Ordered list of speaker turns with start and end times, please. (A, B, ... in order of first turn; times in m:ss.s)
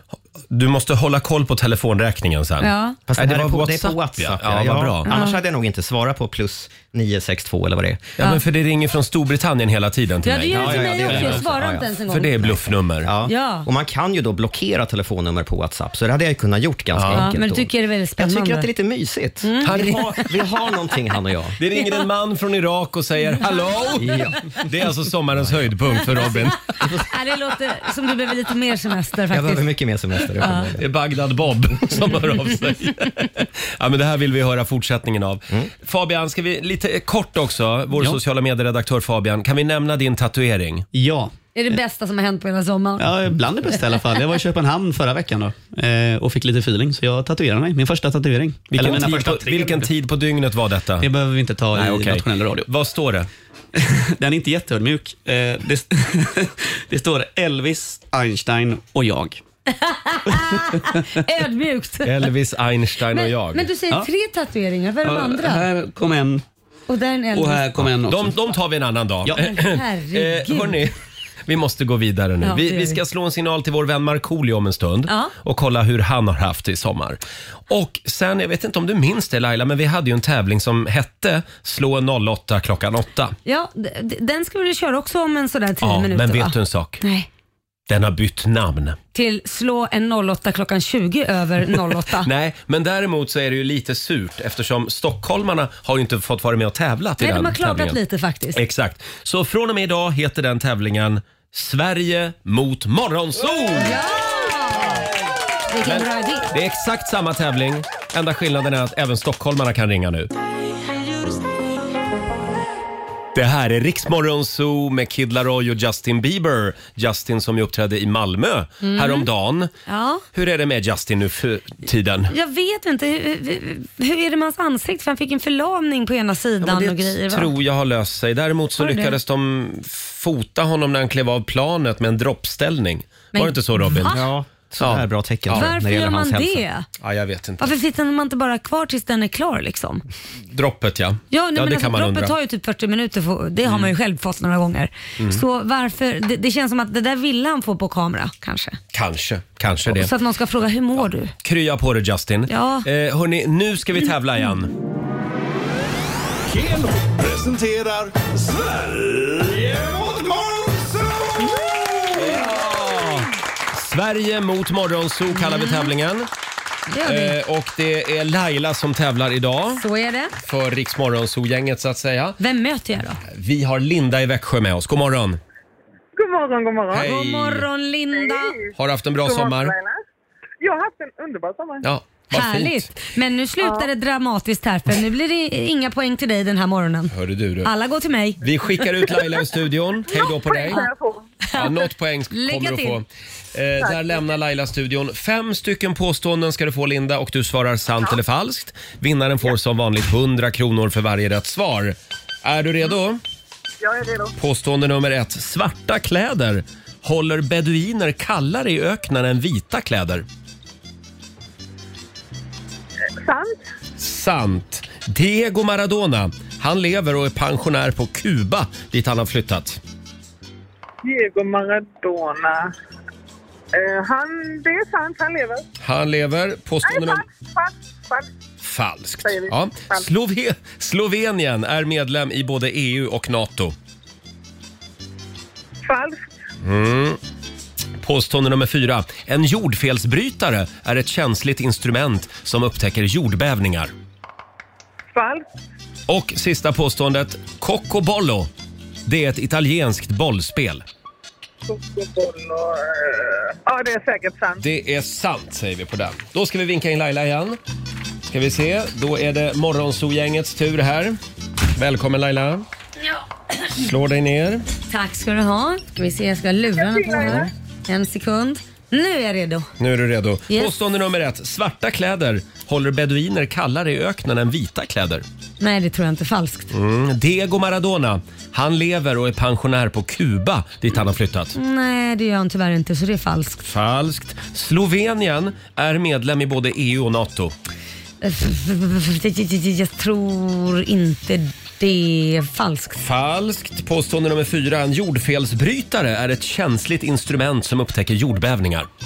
0:00.5-0:05.1 A
0:02.6-0:03.0 B
0:03.1-0:08.2 C
0:05.0-0:05.4 B
0:08.2-0:11.4 A
0:10.2-0:12.5 B
0:10.5-0:21.6 C
0:12.1-0:13.1 A
0:13.2-0:13.7 B
0:16.9-0:17.3 A
0:17.1-0:18.7 B
0:19.4-0:20.3 B
0:19.6-0:20.0 A
0:21.6-0:26.6 A
0:24.0-0:24.4 C
0:26.1-0:29.7 B
0:29.3-0:30.9 C
0:30.4-0:30.7 B
0:30.8-0:40.9 A
0:40.9-0:41.3 D
0:41.6-0:43.1 B
0:43.0-0:49.8 D
0:48.7-0:51.1 A
0:48.9-0:49.6 C
0:51.0-0:52.7 D
0:51.7-0:53.3 A
0:53.8-0:59.4 D
0:59.7-1:02.2 B
1:00.3-1:01.0 D
1:02.0-1:03.7 A
1:03.1-1:05.6 B
1:05.0-1:06.4 D
1:06.9-1:07.7 B
1:07.4-1:08.4 D
1:08.0-1:10.9 A
1:09.4-1:10.8 B
1:11.5-1:23.4 A
1:12.4-1:13.0 B
1:15.1-1:15.3 B
1:23.4-1:27.3 B
1:25.8-1:27.0 A
1:27.9-1:29.0 A
1:29.1-1:32.3 B
1:32.2-1:38.0 A
1:37.2-1:38.6 B
1:38.5-1:44.0 A
1:43.8-1:45.1 B
1:45.7-1:46.5 B
1:45.8-1:50.3 A
1:53.3-1:59.7 A
1:58.8-1:59.3 B
1:59.9-2:00.2 B
2:00.3-2:02.3 A
2:02.3-2:07.5 B
2:06.6-2:14.3 A
2:08.8-2:09.2 B
2:13.3-2:14.3 B
2:14.1-2:16.6 C
2:14.8-2:15.7 A
2:15.5-2:16.9 B
2:17.0-2:17.7 A
2:17.6-2:20.0 B
2:20.5-2:22.3 A
2:21.3-2:28.8 B
2:23.6-2:23.9 A
2:25.2-2:25.4 A
2:28.9-2:30.1 A
2:29.9-2:31.3 B
2:31.0-2:34.7 A
2:32.5-2:32.9 B
2:36.5-2:42.0 E
2:42.1-2:46.3 A
2:45.3-2:45.9 B
2:46.9-2:47.4 B
2:47.0-2:49.8 A
2:49.8-2:50.3 B
2:50.4-2:52.4 A
2:52.4-2:53.2 B
2:53.3-2:55.4 A
2:56.2-2:57.1 F
2:56.9-2:57.7 A
2:57.0-2:58.6 B
2:58.1-3:00.0 F
2:58.8-2:59.8 A
3:00.6-3:01.9 F
3:01.8-3:02.9 A
3:02.3-3:08.5 B
3:03.6-3:03.9 F
3:07.1-3:07.7 A
3:08.4-3:10.8 A
3:10.1-3:11.3 F
3:11.5-3:13.0 B
3:11.6-3:23.2 A
3:13.8-3:14.1 F
3:23.8-3:24.3 F
3:24.4-3:30.2 A
3:33.2-3:33.7 F
3:34.0-3:39.8 A
3:41.0-3:42.7 F
3:43.7-3:45.6 F
3:45.8-3:47.2 A
3:46.8-3:48.3 F
3:48.6-3:53.8 A
3:49.2-3:50.1 F
3:55.8-3:56.3 F
3:56.6-3:57.2 A
3:58.0-4:03.9 A
4:05.1-4:05.4 F
4:06.1-4:08.5 A
4:09.0-4:10.8 A
4:11.7-4:14.6 F
4:14.6-4:17.6 A
4:18.3-4:21.2 A
4:21.8-4:22.7 A
4:23.8-4:24.7 A
4:24.9-4:29.7 B
4:26.8-4:27.5 F
4:29.8-4:35.2 A
4:35.6-4:36.7 B
4:36.7-4:41.6 A
4:41.6-4:43.6 B
4:43.6-4:47.5 A
4:48.2-4:53.0 B
4:53.0-4:58.9 A